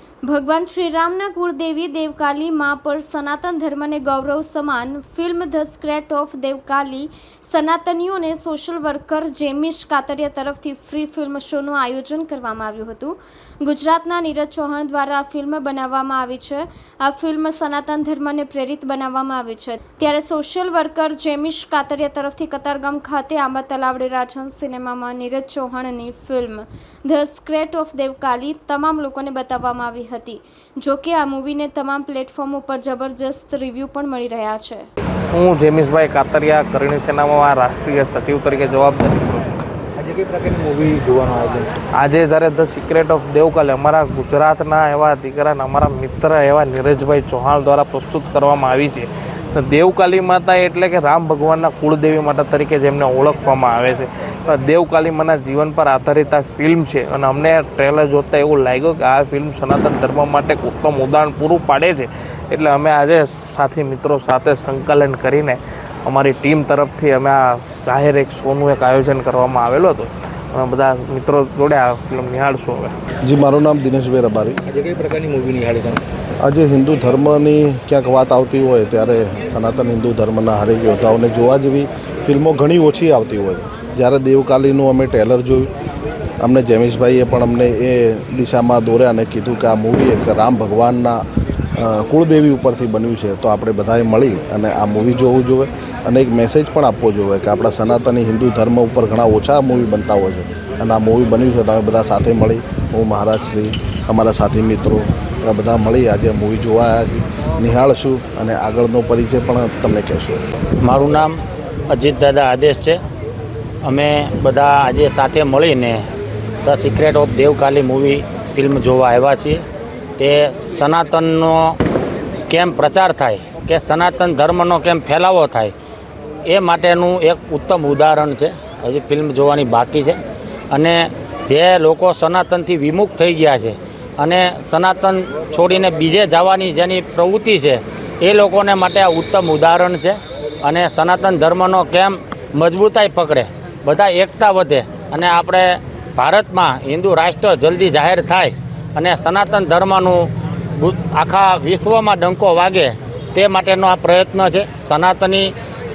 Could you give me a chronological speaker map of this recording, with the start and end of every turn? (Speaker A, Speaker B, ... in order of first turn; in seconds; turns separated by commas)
Speaker A: 0.2-34.9, Speaker B: 35.3-39.5, Speaker C: 40.0-41.7, Speaker B: 42.0-72.9, Speaker D: 73.2-74.6, Speaker C: 74.7-76.0, Speaker D: 76.4-85.7, Speaker D: 86.4-91.2, Speaker D: 91.7-110.4, Speaker E: 110.8-111.4, Speaker E: 111.9-113.0, Speaker E: 113.8-116.0, Speaker E: 116.6-119.6, Speaker E: 120.2-121.8, Speaker E: 122.5-125.7, Speaker E: 126.5-130.2, Speaker E: 130.7-155.5